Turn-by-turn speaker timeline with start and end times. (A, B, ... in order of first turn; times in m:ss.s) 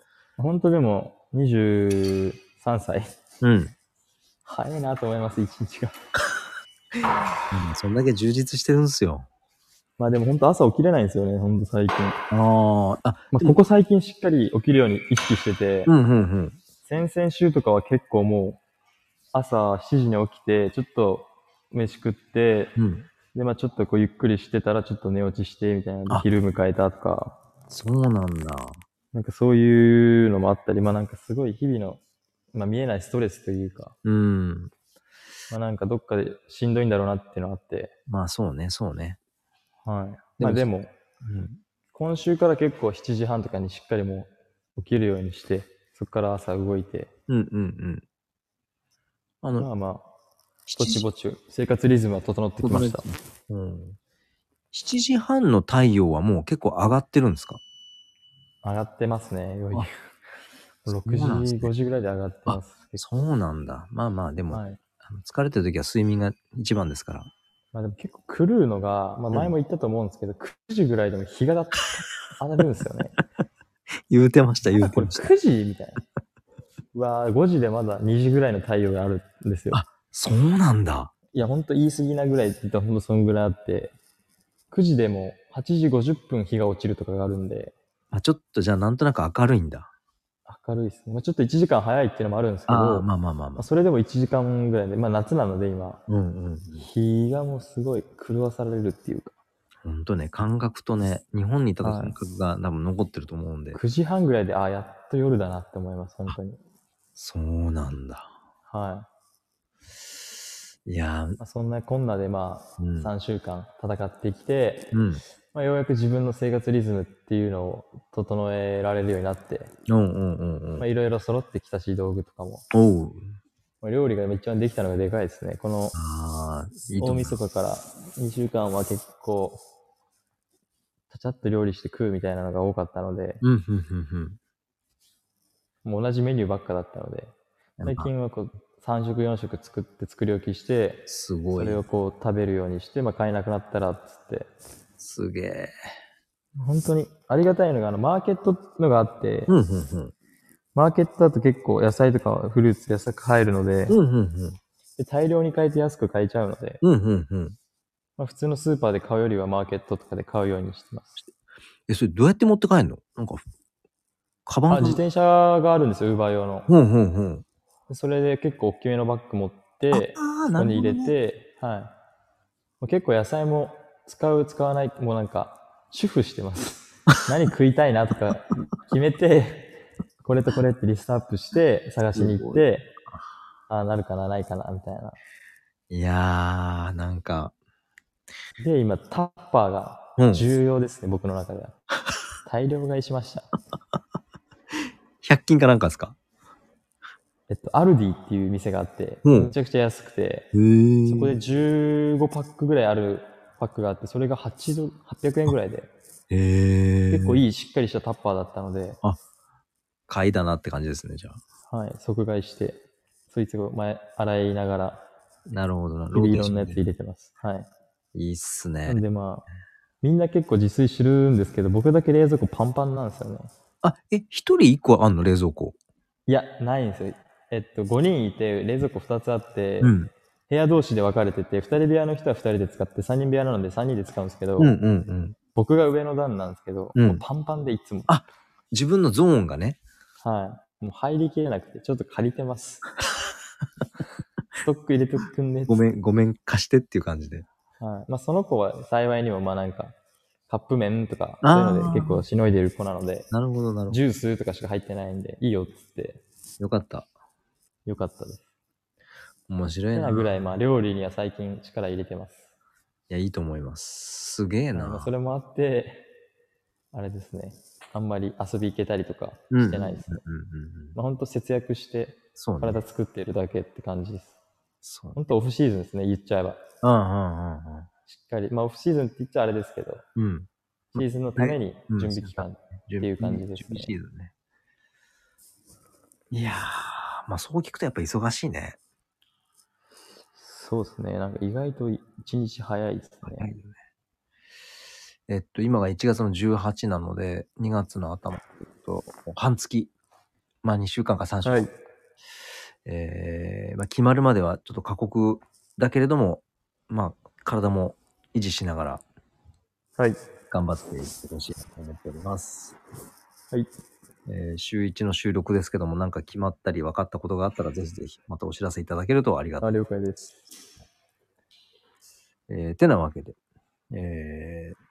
0:00.4-0:03.1 A
0:03.4-0:03.7 B
0:04.4-0:06.0 A
0:07.5-0:09.3 B
0:10.0-0:12.2 A
0:12.3-0:13.6 B
0:13.3-0:15.9 A
0:15.9-0:16.6 B
0:16.8-0:18.6 A
0:19.3-0:22.7 A
0:22.8-0:23.1 B
0:23.3-0:27.4 A
0:27.7-0:28.8 B
0:29.1-0:32.0 A
0:32.5-0:34.0 A
0:34.0-0:34.7 B
0:35.5-0:37.9 A
0:38.1-0:39.2 B
0:39.8-0:40.9 A
0:40.4-0:40.7 B
0:41.2-0:41.6 B
0:41.9-0:47.1 A
0:47.3-0:48.0 B
0:49.4-0:49.7 B
0:49.6-0:50.1 A
0:50.7-0:51.1 B
0:50.8-0:53.1 A
0:52.6-0:54.0 B
0:54.7-0:57.6 B
0:58.6-0:59.9 A
1:00.9-1:03.0 A
1:00.9-1:01.7 B
1:02.5-1:07.3 B
1:04.5-1:04.8 A
1:07.7-1:13.2 A
1:14.1-1:15.3 B
1:14.8-1:16.0 A
1:16.9-1:19.8 A
1:19.7-1:21.1 B
1:21.3-1:23.9 A
1:24.7-1:27.8 A
1:28.1-1:29.9 B
1:30.5-1:36.0 A
1:32.7-1:33.7 B
1:36.1-1:36.9 B
1:36.8-1:39.4 A
1:39.8-1:43.8 B
1:41.8-1:42.2 A
1:43.7-1:46.6 A
1:47.2-1:48.3 B
1:48.7-1:49.1 A
1:50.9-1:51.4 B
1:51.4-1:54.9 A
1:52.8-1:53.1 B
1:54.9-1:55.2 B
1:55.5-1:59.7 A
1:59.9-2:00.9 B
2:00.8-2:02.7 A
2:02.7-2:03.3 B
2:03.8-2:06.0 A
2:06.0-2:07.4 B
2:07.0-2:09.6 A
2:11.1-2:13.4 A
2:13.4-2:14.4 B
2:15.8-2:17.3 A
2:17.8-2:18.1 B
2:17.8-2:24.5 A
2:21.1-2:21.8 B
2:25.0-2:25.7 B
2:26.6-2:29.5 A
2:29.5-2:30.1 B
2:30.8-2:34.0 A
2:33.9-2:34.6 B
2:35.0-2:36.8 A
2:36.8-2:37.6 B
2:38.2-2:41.2 A
2:41.9-2:43.4 B
2:44.5-2:45.0 B
2:44.7-2:46.7 A
2:46.7-2:47.4 B
2:47.9-2:51.9 A
2:49.9-2:51.1 B
2:52.8-3:02.9 A
3:02.1-3:02.6 B
3:03.7-3:05.2 A
3:05.9-3:07.5 B
3:08.6-3:11.8 A
3:10.2-3:10.5 B
3:12.4-3:13.5 A
3:15.2-3:16.2 B
3:17.5-3:20.5 A
3:19.2-3:19.5 B
3:20.5-3:21.4 B
3:21.1-3:25.9 A
3:26.3-3:27.4 B
3:27.1-3:29.0 A
3:30.1-3:31.4 B
3:31.7-3:35.0 A
3:35.5-3:36.9 B
3:36.1-3:37.7 A
3:38.2-3:39.0 B
3:38.9-3:39.4 A
3:40.0-3:43.5 A
3:43.8-3:45.8 B
3:46.3-3:50.0 A
3:49.8-3:50.1 B
3:50.5-3:54.7 A
3:54.6-3:55.4 B
3:55.5-3:58.1 A
3:57.0-3:57.2 B
3:58.1-3:59.8 B
4:00.2-4:02.8 A
4:04.6-4:05.8 A
4:05.7-4:07.5 B
4:07.8-4:10.0 A
4:10.5-4:13.3 A
4:11.4-4:12.3 B
4:13.3-4:14.0 B
4:13.9-4:16.2 A
4:16.6-4:17.1 B
4:17.9-4:18.4 A
4:19.5-4:20.5 B
4:19.9-4:22.4 A
4:23.1-4:25.1 B
4:24.7-4:26.1 A
4:26.9-4:30.2 A
4:29.5-4:31.0 B
4:31.0-4:34.3 A
4:32.3-4:32.8 B
4:34.8-4:35.2 B
4:35.2-4:36.6 A
4:36.8-4:37.9 B
4:38.1-4:40.1 A
4:40.2-4:44.3 B
4:41.0-4:43.9 A
4:46.3-4:48.8 B
4:50.4-4:53.5 A
4:53.2-4:53.8 B
4:55.3-4:59.9 B
5:00.6-5:01.7 B
5:01.4-5:01.7 A
5:02.9-5:09.0 B
5:10.5-5:12.8 B
5:14.3-5:19.8 B
5:19.6-5:20.4 A
5:22.5-5:23.4 B
5:23.9-5:24.8 B